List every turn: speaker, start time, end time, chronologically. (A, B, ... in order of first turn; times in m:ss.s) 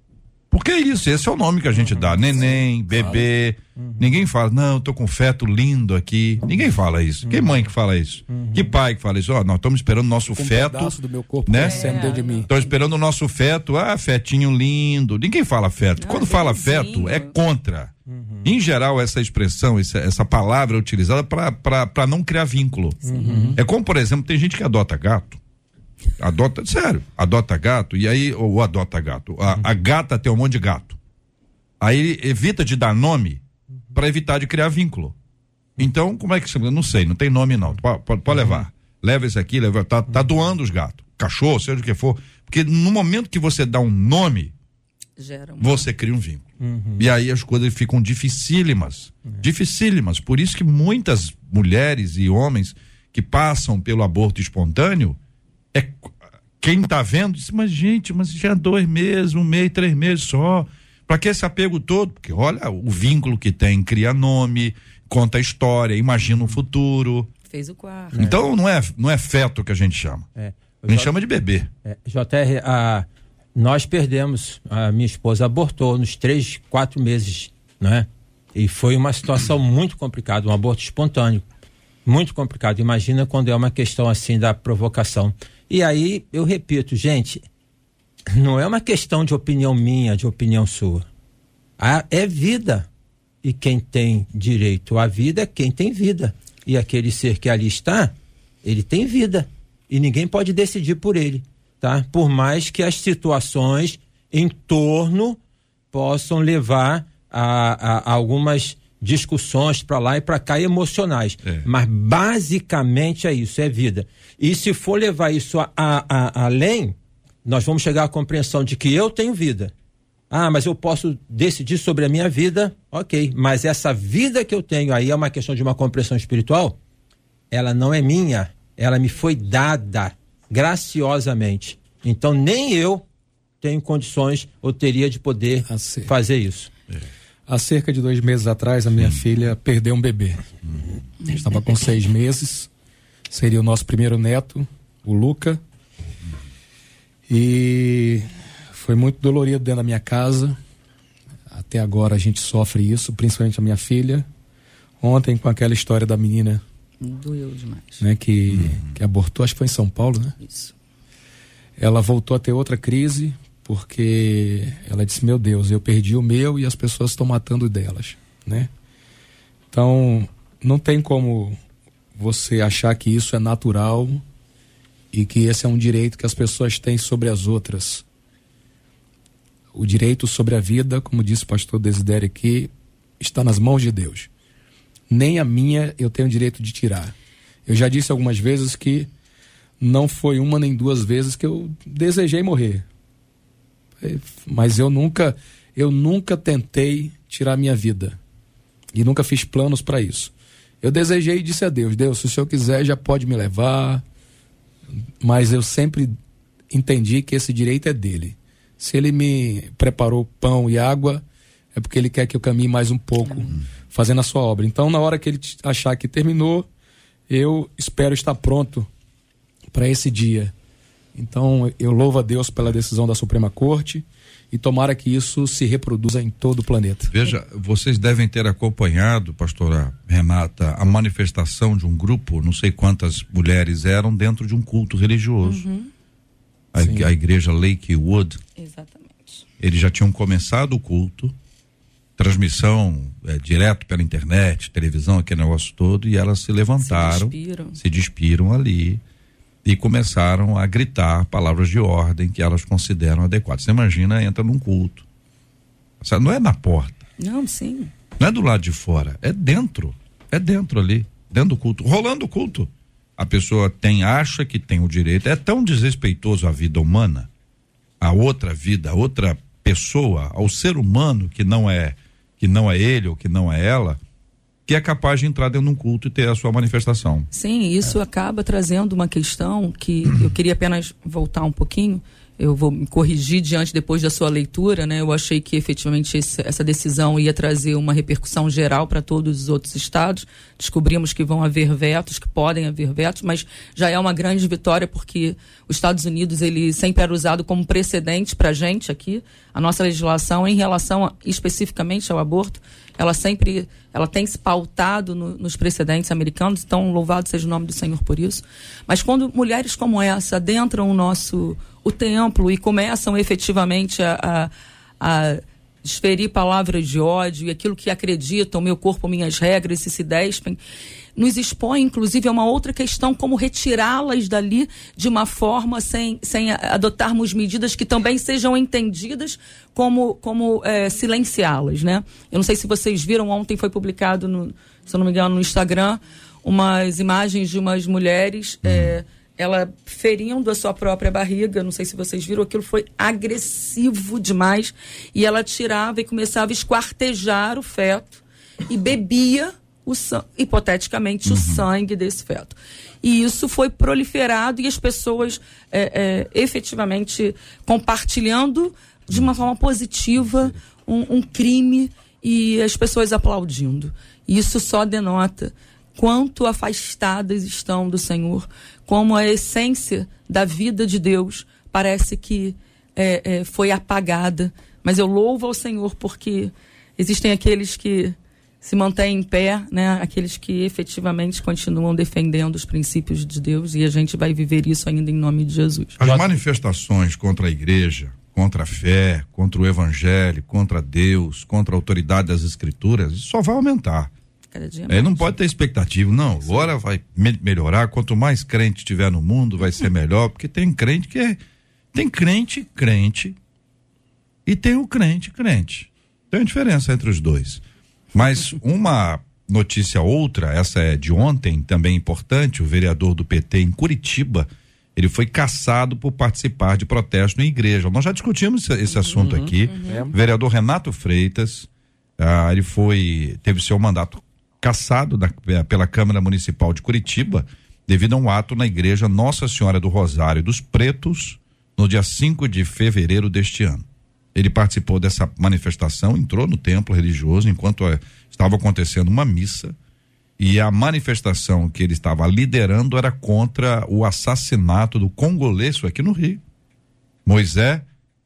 0:00.5-0:17.9 A
0:01.7-0:02.4 B
0:02.9-0:03.2 C
0:03.8-0:04.1 B
0:07.3-0:07.6 B
0:08.3-0:08.7 B
0:10.3-0:12.5 D
0:11.6-0:12.7 C
0:16.0-0:17.4 C
0:18.1-0:18.4 B
0:18.4-0:23.0 A
0:23.0-0:23.5 B
0:23.2-0:23.6 D
0:23.5-0:25.4 A
0:26.2-0:31.0 A
0:31.8-0:33.4 A
0:33.9-0:35.1 A
0:35.8-0:44.5 A
0:38.4-0:38.6 B
0:45.2-0:45.9 C
0:45.6-0:46.4 A
0:46.6-0:47.0 B
0:47.0-0:55.2 A
0:55.7-1:07.3 A
1:07.5-1:08.4 C
1:08.1-1:10.2 A
1:10.4-1:11.1 B
1:10.9-1:11.7 A
1:11.8-1:21.4 B
1:22.0-1:27.4 B
1:28.3-1:31.0 B
1:31.8-1:32.9 B
1:33.4-1:38.1 B
1:38.6-1:45.4 B
1:45.9-1:59.7 B
2:00.3-2:06.8 B
2:07.5-2:13.0 B
2:13.6-2:16.7 B
2:15.7-2:16.1 D
2:17.5-2:20.4 D
2:21.3-2:22.7 D
2:23.3-2:25.6 D
2:27.3-2:30.6 D
2:31.5-2:34.2 D
2:35.0-2:36.6 D
2:37.0-2:38.0 C
2:38.0-2:40.4 D
2:38.5-2:38.9 A
2:40.4-2:40.7 C
2:41.8-2:48.7 D
2:49.7-2:51.6 D
2:52.1-2:54.2 D
2:55.1-2:58.0 D
2:59.7-3:04.3 D
3:05.1-3:07.1 D
3:07.6-3:09.1 D
3:09.8-3:12.8 D
3:14.0-3:18.2 D
3:18.9-3:24.0 D
3:25.2-3:26.1 D
3:26.7-3:36.7 D
3:33.2-3:33.5 C
3:37.3-3:38.9 D
3:39.7-3:40.5 D
3:41.1-3:47.1 D
3:47.1-3:55.6 A
3:55.4-3:55.9 C
3:56.7-3:58.4 A
3:56.8-3:57.1 D
3:58.6-3:59.4 C
3:59.6-4:01.3 A
4:02.2-4:09.0 A
4:06.8-4:07.8 C
4:09.6-4:15.0 A
4:16.0-4:17.0 A
4:17.2-4:17.9 C
4:18.2-4:27.3 A
4:28.0-4:34.0 A
4:34.7-4:37.3 A
4:37.3-5:20.6 C
5:21.2-6:26.0 C
5:38.6-5:39.0 A
5:51.3-5:51.6 A
6:26.0-6:34.1 A
6:26.0-6:26.3 B
6:34.5-6:35.4 C
6:34.9-6:41.4 A
6:41.9-6:43.4 A
6:44.4-6:47.6 A
6:48.1-7:19.7 A
6:58.9-7:00.0 C
6:59.2-7:00.1 D
7:20.4-7:26.4 A
7:27.2-7:27.8 A